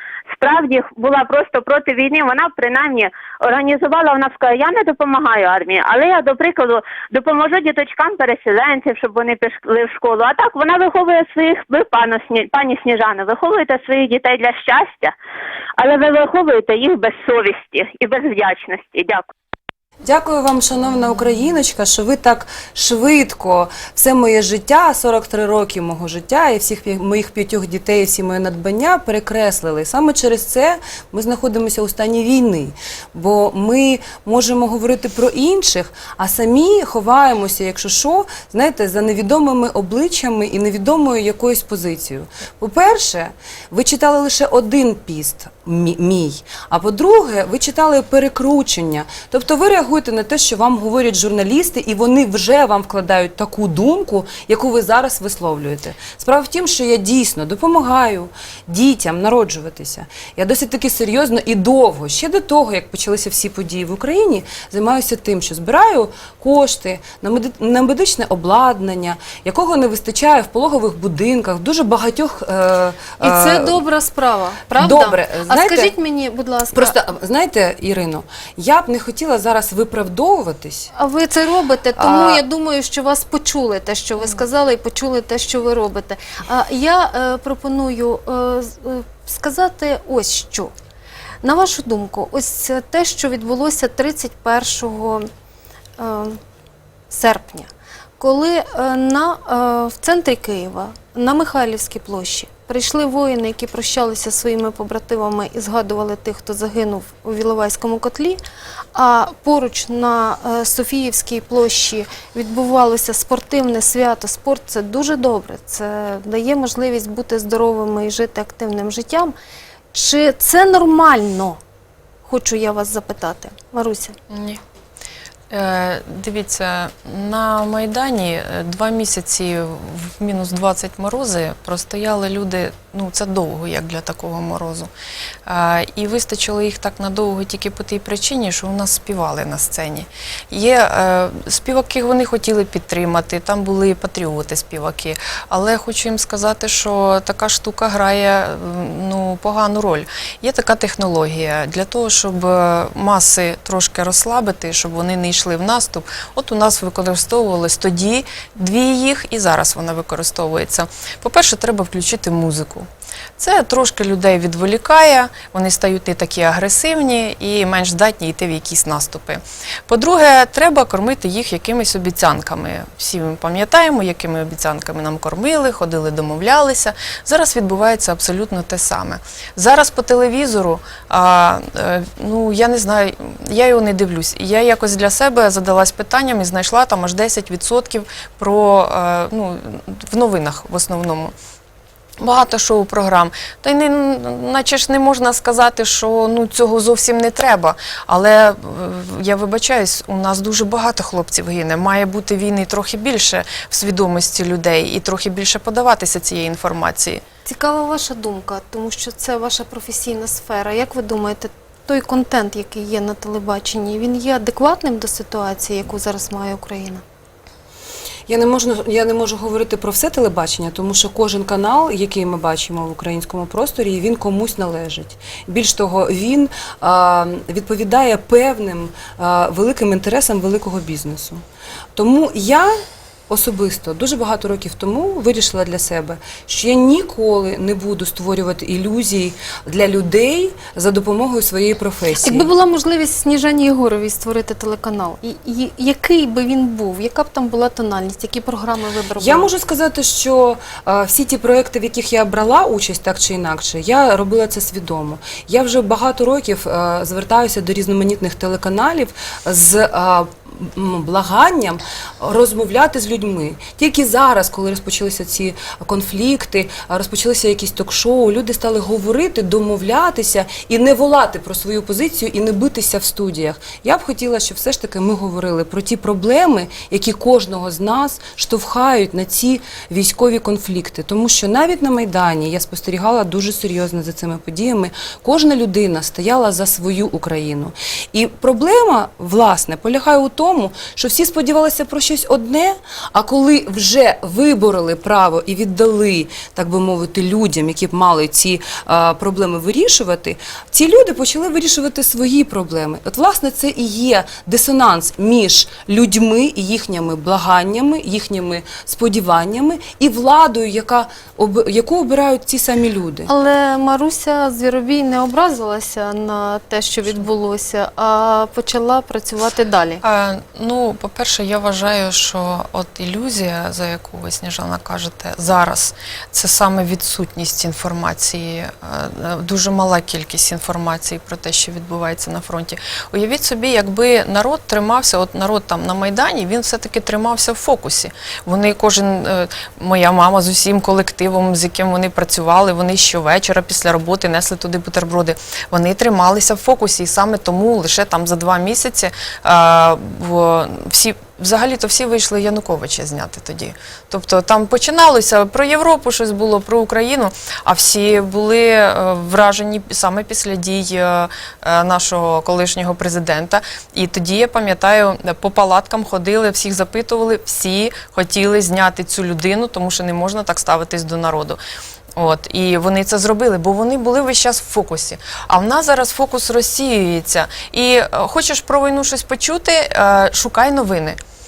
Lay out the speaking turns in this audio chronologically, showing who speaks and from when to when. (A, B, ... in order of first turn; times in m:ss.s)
0:00.4-0:15.1 A
0:15.8-0:19.3 A
0:20.0-1:13.8 B
1:13.2-1:17.0 C
1:14.8-1:15.9 B
1:16.7-1:20.9 B
1:21.0-1:30.7 C
1:22.0-1:22.4 B
1:31.4-1:35.3 C
1:36.0-1:36.4 C
1:37.1-1:48.4 C
1:48.9-1:59.3 C
1:59.9-2:01.6 C
2:02.3-2:04.2 C
2:04.3-2:04.6 D
2:05.5-2:14.9 D
2:15.5-2:42.9 D
2:43.4-3:11.3 D
3:12.2-3:27.2 D
3:27.4-3:37.0 C
3:38.3-3:51.4 B
3:52.0-4:02.5 B
4:02.2-4:09.5 C
4:09.2-5:13.3 B
5:13.3-5:20.0 C
5:20.0-6:11.6 D
6:12.2-6:21.2 D